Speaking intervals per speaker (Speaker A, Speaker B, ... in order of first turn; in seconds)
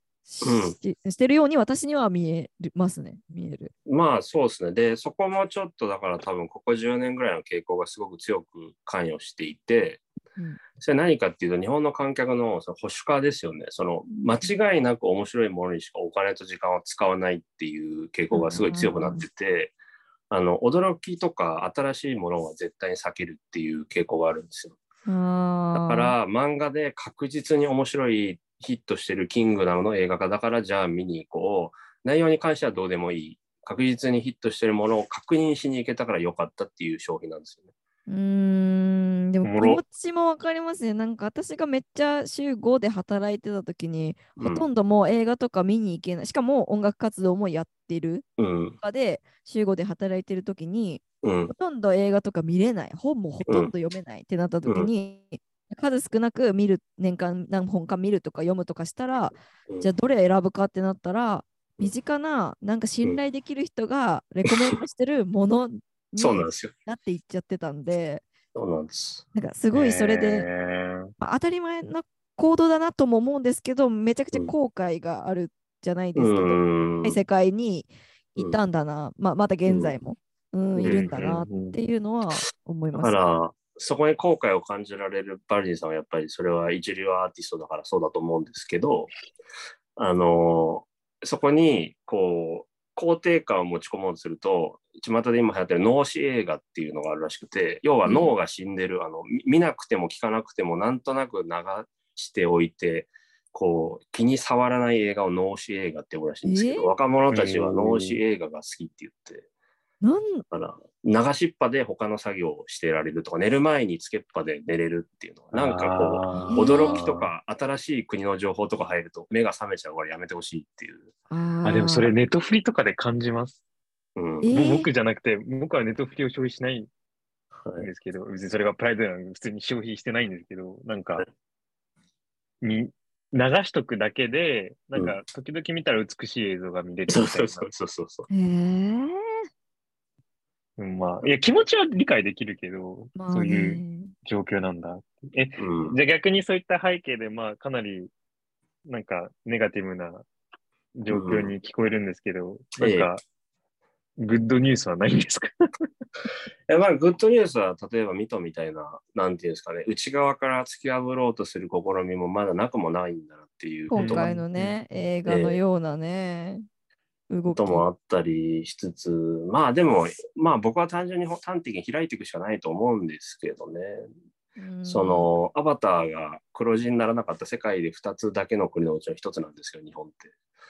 Speaker A: 0.3-3.7, 14.1-14.5, 18.3-19.2, 25.1-26.1, 38.1-48.2, 48.8-68.2, 69.3-70.5, 71.2-83.2, 98.0-98.3, 106.4-106.9, 110.0-110.4, 116.3-117.0, 121.3-122.1, 124.4-124.9, 138.3-139.4, 143.2-144.1, 163.9-166.7, 167.3-167.8, 174.6-175.3
Speaker B: 0.4-0.8, 3.9-10.0, 10.8-19.8, 20.3-24.8, 25.7-37.7, 44.4-44.7, 48.4-48.8, 51.2-51.5, 53.5-53.7, 66.2-66.7, 68.5-69.2, 76.2-77.2, 79.7-79.9, 80.8-81.3, 83.0-89.1, 90.0-109.5, 110.5-121.1, 124.2-124.6, 137.1-138.3, 145.6-146.0, 151.1-151.5, 152.8-153.1, 156.7-164.3, 165.3-165.6, 167.5-174.1, 174.8-180.3
Speaker C: 39.4-39.8, 69.7-71.1, 80.8-81.8, 107.3-108.2, 115.5-117.3, 121.7-123.6, 124.5-126.9, 127.8-131.2, 132.6-137.7, 140.8-148.1, 148.8-150.3, 150.9-153.2, 154.2-155.6, 163.9-164.8